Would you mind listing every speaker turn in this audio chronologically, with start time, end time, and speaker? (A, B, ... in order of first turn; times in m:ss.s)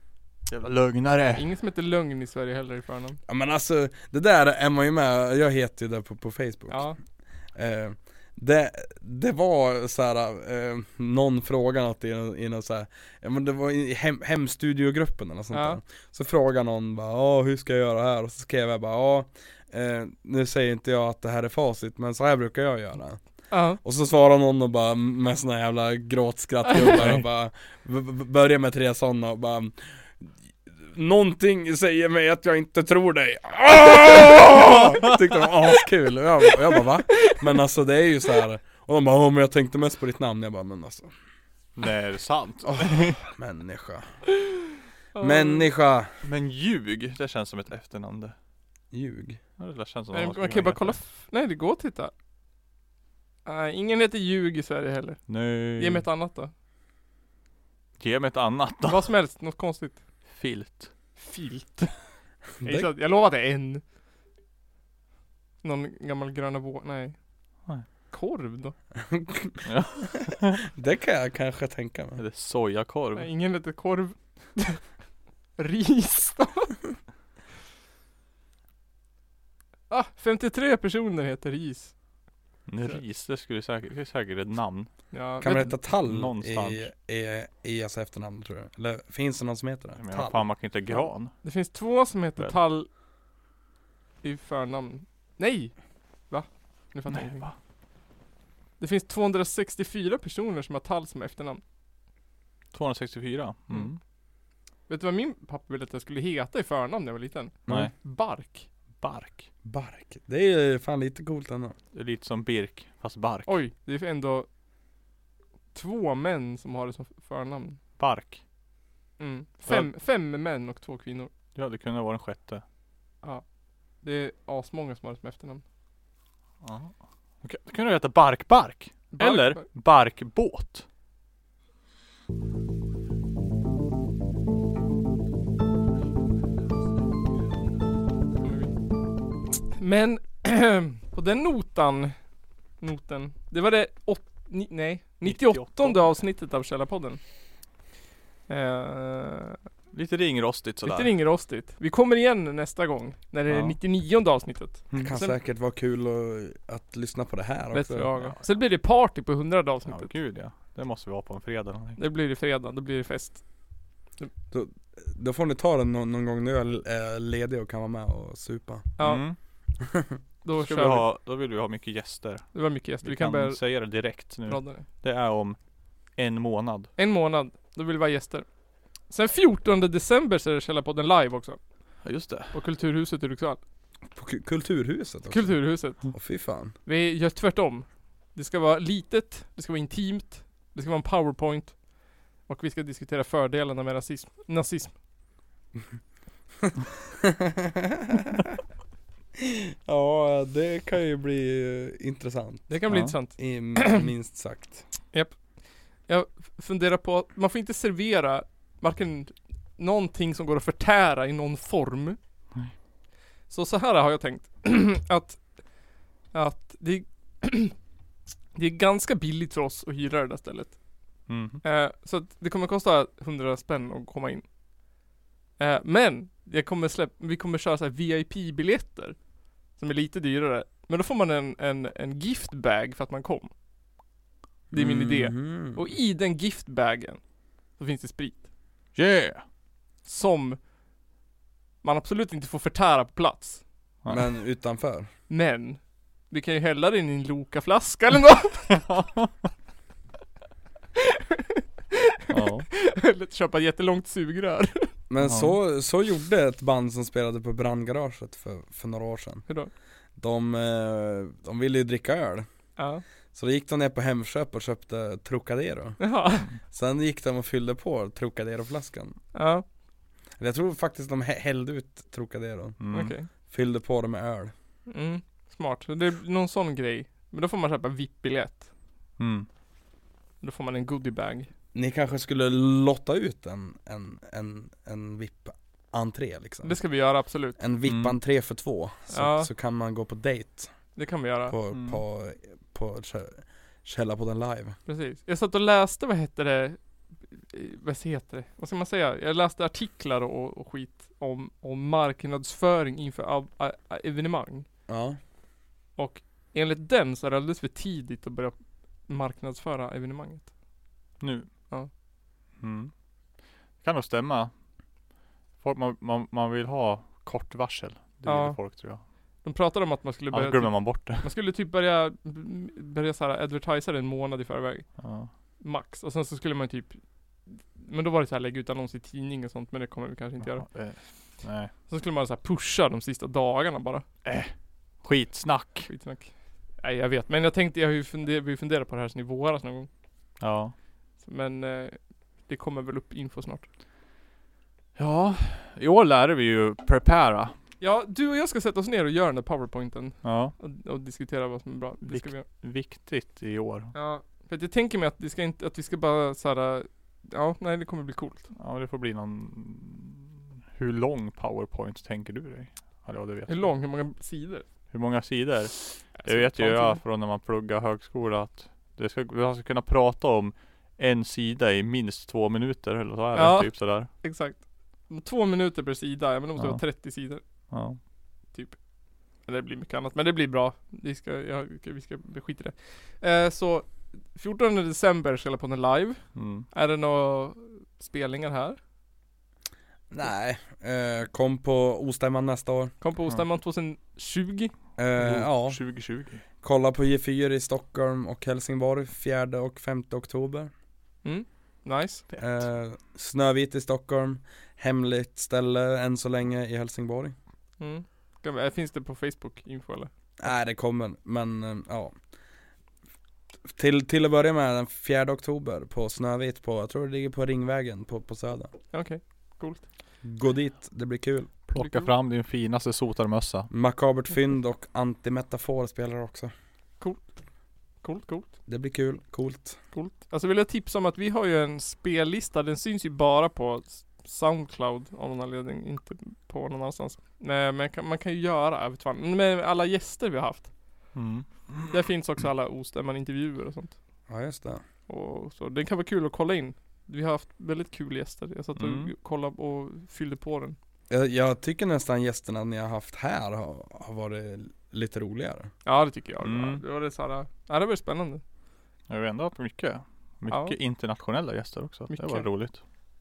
0:00.5-0:01.5 A
0:01.4-0:03.2 B
0:03.3-0:06.9 C
0:06.7-0:07.0 B
0:07.5-0:23.2 C
0:15.5-0:15.8 B
0:23.5-0:23.8 B
0:23.8-0:41.1 C
0:26.8-0:27.2 A
0:41.8-0:43.2 A
0:42.6-0:44.0 C
0:45.1-0:45.7 B
0:45.2-0:46.1 C
0:46.2-0:48.3 A
0:48.9-0:49.4 C
0:49.6-0:51.0 A
0:50.1-0:52.1 B
0:53.4-0:56.5 B
0:55.3-0:56.0 A
0:58.0-0:59.1 A
0:58.9-1:00.0 B
1:00.3-1:00.9 A
1:01.2-1:01.9 B
1:02.6-1:02.9 C
1:02.6-1:03.8 B
1:05.6-1:07.2 B
1:08.1-1:08.7 B
1:09.0-1:09.6 C
1:09.6-1:10.6 A
1:10.6-1:12.2 C
1:12.2-1:13.3 A
1:13.1-1:14.8 B
1:15.6-1:16.7 B
1:19.9-1:21.9 B
1:22.7-1:24.9 A
1:25.1-1:25.7 B
1:25.4-1:30.4 C
1:26.0-1:26.9 A
1:30.0-1:31.3 A
1:31.4-1:32.9 B
1:34.2-1:35.7 B
1:36.3-1:37.5 B
1:37.1-1:37.5 A
1:38.8-1:41.6 B
1:42.7-1:44.0 A
1:44.9-1:48.7 B
1:49.0-1:49.5 A
1:49.6-1:51.7 C
1:51.9-1:53.6 A
1:53.4-1:54.5 B
1:55.7-1:57.8 B
1:58.0-1:58.4 A
1:59.2-2:01.3 B
2:01.5-2:02.6 A
2:04.0-2:05.6 B
2:06.6-2:10.8 A
2:09.2-2:09.6 B
2:18.4-2:18.8 B
2:19.8-2:22.2 B
2:22.8-2:27.2 B
2:25.2-2:26.1 A
2:28.5-2:29.6 B
2:29.9-2:31.1 A
2:30.8-2:35.4 B
2:33.5-2:33.8 A
2:35.0-2:38.1 C
2:37.7-2:40.1 B
2:38.2-2:38.5 A
2:39.9-2:42.0 A
2:42.0-2:43.4 B
2:44.5-2:48.9 C
2:49.0-2:49.2 B
2:49.0-2:49.4 A
2:49.9-2:50.2 C
2:50.4-2:51.0 B
2:50.6-2:55.6 A
2:52.5-2:53.6 B
2:54.4-2:54.8 B
2:56.2-2:56.9 A
2:57.0-2:58.4 B
2:59.1-3:01.6 B
3:02.0-3:02.5 A
3:02.5-3:03.6 B
3:04.1-3:06.7 C
3:05.3-3:06.1 B
3:06.8-3:11.8 B
3:12.4-3:14.9 B
3:17.2-3:18.5 C
3:19.4-3:24.8 C
3:22.7-3:24.0 B
3:25.1-3:25.4 B
3:26.1-3:32.2 B
3:33.5-3:35.4 B
3:36.3-3:37.7 B
3:38.5-3:40.8 B
3:41.3-3:41.6 A
3:41.6-3:44.4 B
3:45.6-3:49.2 B
3:49.7-3:53.5 B
3:54.7-3:55.8 C
3:54.7-3:57.2 B
3:57.8-3:58.4 B
3:58.9-3:59.4 A
4:00.0-4:00.6 B
4:01.8-4:03.6 B
4:04.1-4:05.1 C
4:05.3-4:08.8 B
4:11.0-4:12.0 B
4:12.3-4:12.7 A
4:12.7-4:14.9 B
4:15.1-4:19.5 C
4:15.2-4:15.5 A
4:20.2-4:22.4 C
4:22.8-4:23.0 B
4:23.3-4:26.1 C
4:26.0-4:26.5 B
4:26.6-4:29.2 C
4:29.3-4:29.6 B
4:30.4-4:32.8 C
4:32.8-4:33.1 A
4:32.9-4:33.3 B
4:33.5-4:34.5 C
4:34.9-4:38.7 B
4:39.2-4:39.5 A
4:40.4-4:41.5 B
4:41.7-4:46.8 C
4:46.6-4:47.6 B
4:47.6-4:50.7 C
4:47.9-4:48.1 A
4:49.1-4:49.5 B
4:51.0-4:51.5 B
4:51.5-4:54.8 C
4:51.7-4:52.0 A
4:54.8-4:56.8 B
4:57.3-5:04.6 B
5:04.9-5:05.2 C
5:06.0-5:10.5 B
5:11.2-5:11.5 A
5:12.6-5:12.9 A
5:13.8-5:14.5 A
5:15.6-5:19.0 A
5:18.2-5:18.7 B
5:19.4-5:24.8 B
5:20.3-5:21.3 A
5:25.0-5:25.3 A
5:25.6-5:30.7 B
5:30.4-5:31.7 A
5:31.9-5:34.0 B
5:34.2-5:35.9 A
5:35.9-5:39.9 B
5:40.4-5:40.7 A
5:41.2-5:43.6 B
5:45.0-5:47.5 A
5:47.8-5:52.4 B
5:50.2-5:50.5 A
5:52.0-5:53.9 A
5:53.9-5:58.5 B
5:58.6-6:03.7 A
6:03.5-6:04.6 B
6:04.9-6:14.1 A
6:06.2-6:07.0 B
6:13.3-6:17.4 B
6:16.6-6:16.8 A
6:17.7-6:18.0 A
6:19.4-6:28.8 B
6:26.3-6:26.6 A
6:30.1-6:32.9 C
6:33.0-6:34.7 B
6:35.0-6:36.0 C
6:35.2-6:36.4 A
6:36.6-6:40.7 C
6:41.2-6:42.2 B
6:42.3-6:42.6 A
6:42.4-6:47.3 C
6:47.8-6:50.1 B
6:50.4-6:52.1 C
6:53.7-6:58.7 C
6:58.9-6:59.8 B
7:00.2-7:01.5 C
7:01.7-7:03.7 A
7:01.7-7:02.1 B
7:03.7-7:06.5 C
7:07.0-7:07.3 B
7:08.0-7:08.5 B
7:08.7-7:09.8 C
7:09.9-7:20.7 B
7:21.1-7:21.9 A
7:21.9-7:24.0 B
7:24.3-7:24.8 C
7:25.1-7:30.8 B
7:28.8-7:29.1 A
7:31.1-7:35.7 C
7:35.8-7:38.4 B
7:36.4-7:36.8 A
7:39.1-7:42.8 A
7:40.5-7:40.7 B
7:42.1-7:42.5 B